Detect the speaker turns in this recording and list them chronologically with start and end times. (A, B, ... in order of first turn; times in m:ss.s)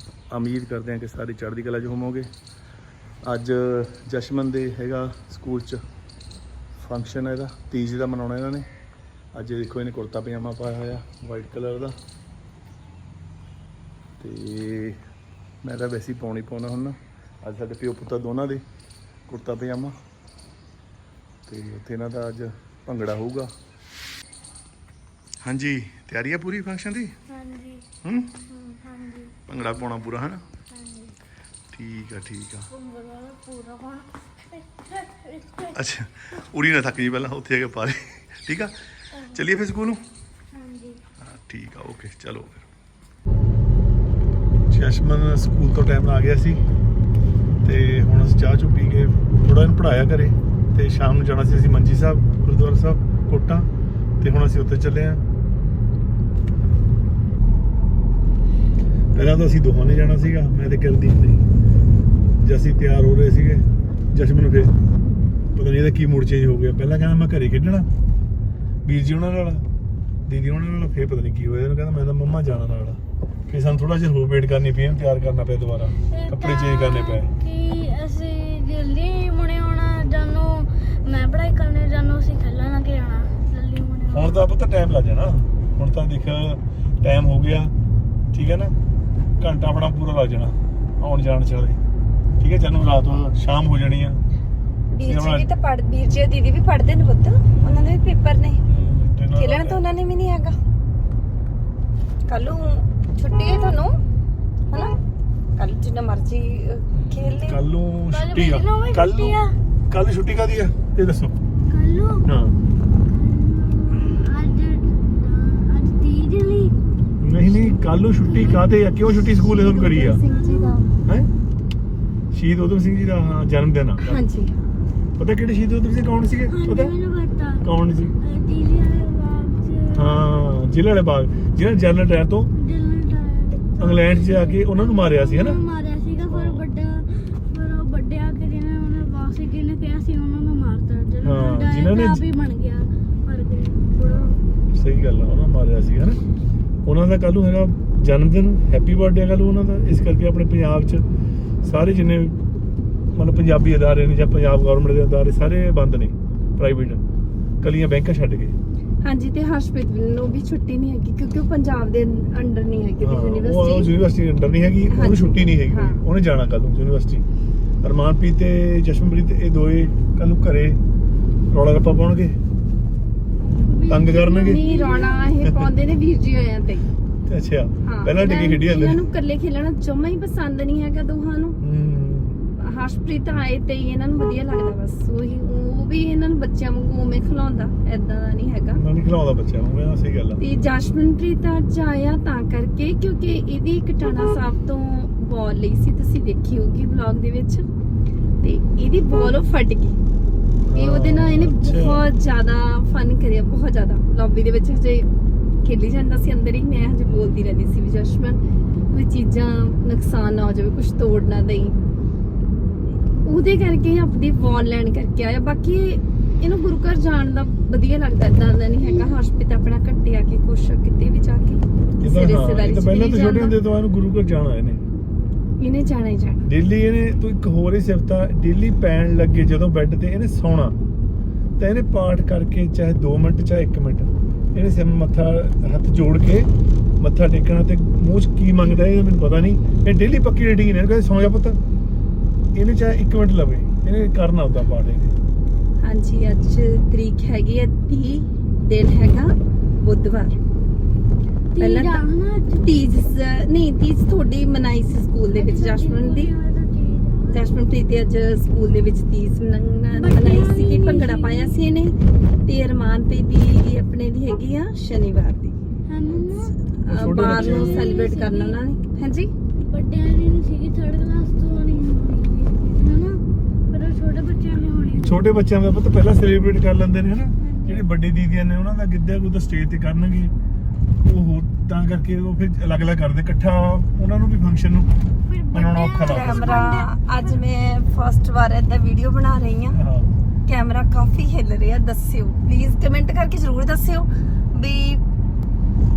0:00.3-0:02.3 A
0:03.2-0:05.8 A
0:06.8-0:08.7 A
0:09.3-0:12.0 A
0:14.2-0:15.0 A
0:15.6-0:18.6 A
0:19.3-0:20.0 A
0:21.5-0:23.5 A
0:25.4-0:27.2 A
0:27.3-0:27.9 B
0:28.0-0:28.4 A
0:28.5-0:29.4 B
0:29.5-0:30.4 A
0:30.7-0:31.2 B
0:31.7-0:32.7 A
0:32.7-0:35.8 B
0:35.7-0:40.0 A
0:39.1-0:39.4 B
0:40.5-0:41.0 B
0:41.2-0:42.7 A
0:44.7-0:46.6 A
0:47.6-0:53.7 A
0:54.2-0:55.2 A
0:59.1-1:01.5 A
1:02.4-1:04.7 A
1:05.6-1:07.9 A
1:08.8-1:09.6 A
1:10.3-1:17.4 A
1:16.1-1:24.5 B
1:24.1-1:27.7 A
1:28.3-1:28.7 A
1:29.4-1:31.8 A
1:32.4-1:34.2 A
1:34.9-1:38.7 C
1:35.0-1:35.5 A
1:38.6-1:39.8 A
1:39.3-1:40.6 C
1:42.3-1:43.9 C
1:45.6-1:47.6 C
1:46.9-1:49.4 A
1:48.1-1:49.6 B
1:49.9-1:51.4 A
1:51.7-1:52.3 B
1:52.2-1:52.6 A
1:53.0-1:56.8 B
1:57.2-2:00.2 A
1:57.5-1:57.8 C
1:58.2-1:59.4 B
1:59.5-2:00.9 C
2:00.2-2:00.8 B
2:02.3-2:04.1 A
2:04.0-2:04.6 C
2:05.2-2:06.9 A
2:06.5-2:07.7 B
2:07.6-2:08.1 A
2:08.2-2:10.3 B
2:09.9-2:12.5 A
2:12.6-2:24.4 B
2:13.8-2:15.6 A
2:16.3-2:16.6 A
2:21.2-2:22.2 A
2:24.7-2:26.2 A
2:26.8-2:31.0 A
2:31.6-2:32.4 A
2:33.1-2:37.0 A
2:37.6-2:38.6 A
2:39.0-2:43.9 C
2:43.0-2:47.2 A
2:44.9-2:46.0 C
2:47.8-2:50.8 A
2:51.5-2:52.4 A
2:53.6-2:55.4 B
2:53.9-2:54.7 A
2:54.4-2:56.9 C
2:55.4-2:55.7 A
2:57.3-2:59.0 A
2:57.8-3:01.6 C
3:01.6-3:02.5 A
3:02.6-3:08.8 C
3:08.7-3:10.4 A
3:10.4-3:17.7 C
3:18.4-3:20.0 C
3:20.6-3:22.0 A
3:20.8-3:25.1 C
3:25.6-3:28.4 C
3:28.9-3:31.8 C
3:33.2-3:43.6 C
3:42.0-3:44.8 A
3:45.6-3:46.5 C
3:46.4-3:50.8 A
3:51.6-4:01.6 A
4:02.6-4:05.2 A
4:05.8-4:10.4 C
4:11.5-4:12.8 B
4:11.6-4:12.0 C
4:12.6-4:16.3 C
4:15.3-4:17.4 B
4:17.3-4:25.6 C
4:19.9-4:21.7 B
4:25.9-4:26.6 B
4:26.6-4:29.3 C
4:26.9-4:27.9 A
4:27.2-4:28.6 B
4:29.6-4:35.3 B
4:35.0-4:40.3 A
4:37.4-4:37.9 B
4:41.0-4:44.9 A
4:45.3-4:47.4 B
4:45.5-4:46.6 A
4:46.0-4:49.8 C
4:49.7-4:50.2 A
4:50.5-4:55.0 C